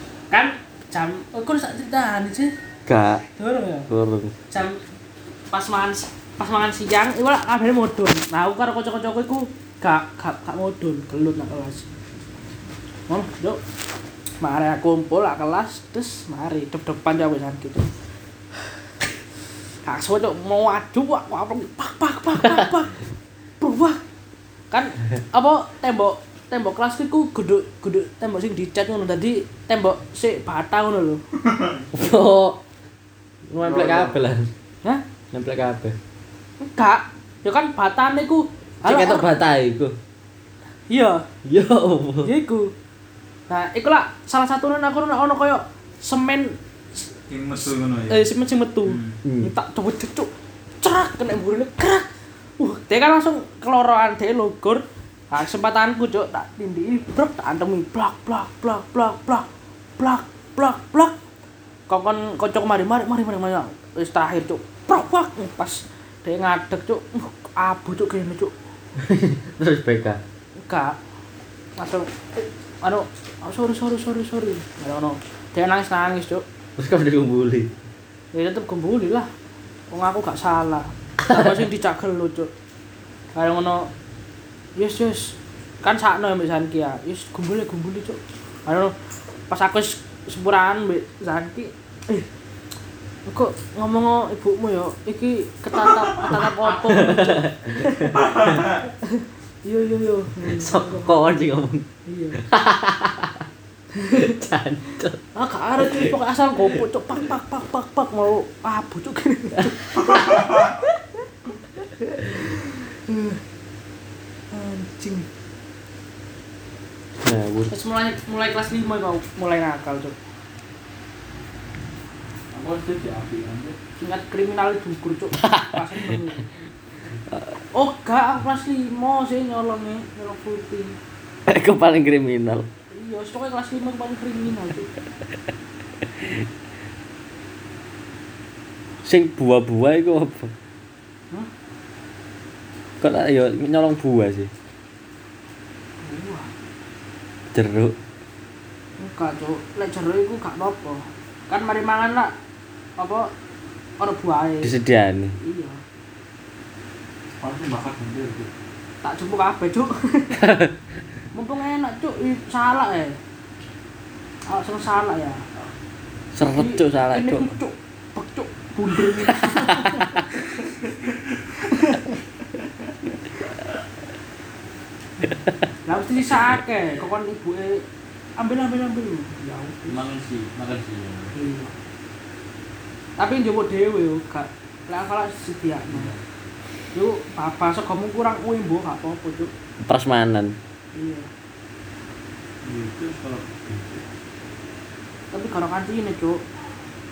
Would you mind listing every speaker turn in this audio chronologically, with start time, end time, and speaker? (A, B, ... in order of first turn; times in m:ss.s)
0:00.3-0:02.5 A
0:02.8-0:03.2 B
0:03.4-0:03.9 A
0:03.9-0:04.3 B
0:04.5-0:04.8 A
0:05.5-0:11.8 A
0:13.1-0:13.6 A
0:14.4-0:17.9 A
0:19.8-0:23.0 A
0:23.6-0:24.0 A
0:24.7-0:31.2 A
0:31.9-0:32.6 B
0:33.5-0:34.5 B
0:33.6-0:34.2 C
0:35.3-0:36.0 B
0:36.6-0:39.3 A
0:38.8-0:39.9 B
0:40.9-0:41.2 A
0:41.4-0:42.3 B
0:42.2-0:42.7 A
0:43.5-0:46.5 A
0:47.5-0:50.3 A
0:47.6-0:47.9 C
0:49.2-0:49.5 B
0:50.8-0:52.1 A
0:52.6-0:59.4 A
1:00.0-1:01.1 A
1:01.9-1:08.5 A
1:09.0-1:10.2 B
1:10.6-1:11.0 A
1:11.8-1:16.4 A
1:16.8-1:17.7 B
1:18.3-1:19.3 A
1:19.9-1:22.5 A
1:21.2-1:21.6 B
1:23.3-1:23.9 A
1:24.8-1:32.3 A
1:33.3-1:41.2 A
1:36.2-1:38.8 B
1:40.4-1:41.8 B
1:42.0-1:42.4 A
1:42.4-1:43.4 B
1:44.0-1:44.3 A
1:44.1-1:45.2 B
1:45.3-1:53.4 A
1:45.8-1:46.8 B
1:49.5-1:50.5 B
1:54.5-1:55.3 A
1:57.2-1:57.7 B
1:57.7-2:00.2 A
2:02.5-2:03.8 C
2:04.0-2:06.5 A
2:05.4-2:05.8 B
2:07.7-2:11.0 A
2:11.5-2:12.7 B
2:12.9-2:14.9 A
2:19.0-2:20.5 B
2:23.0-2:24.5 B
2:26.0-2:26.5 A
2:27.5-2:28.0 B
2:29.0-2:32.3 A
2:33.0-2:33.3 A
2:34.0-2:34.7 A
2:34.6-2:35.4 B
2:35.4-2:35.8 A
2:37.4-2:38.5 C
2:39.0-2:40.4 A
2:40.4-2:40.8 B
2:41.3-2:43.2 A
2:44.4-2:45.4 A
2:46.3-2:47.5 B
2:46.5-2:52.2 A
2:49.3-2:50.4 B
2:55.2-2:55.5 B
2:55.8-2:57.8 A
2:58.4-3:00.0 A
2:59.8-3:01.3 C
3:01.3-3:01.7 A
3:03.2-3:06.1 A
3:05.9-3:06.2 C
3:06.9-3:09.5 A
3:09.8-3:10.6 B
3:10.9-3:11.3 A
3:12.6-3:14.0 C
3:15.3-3:16.4 A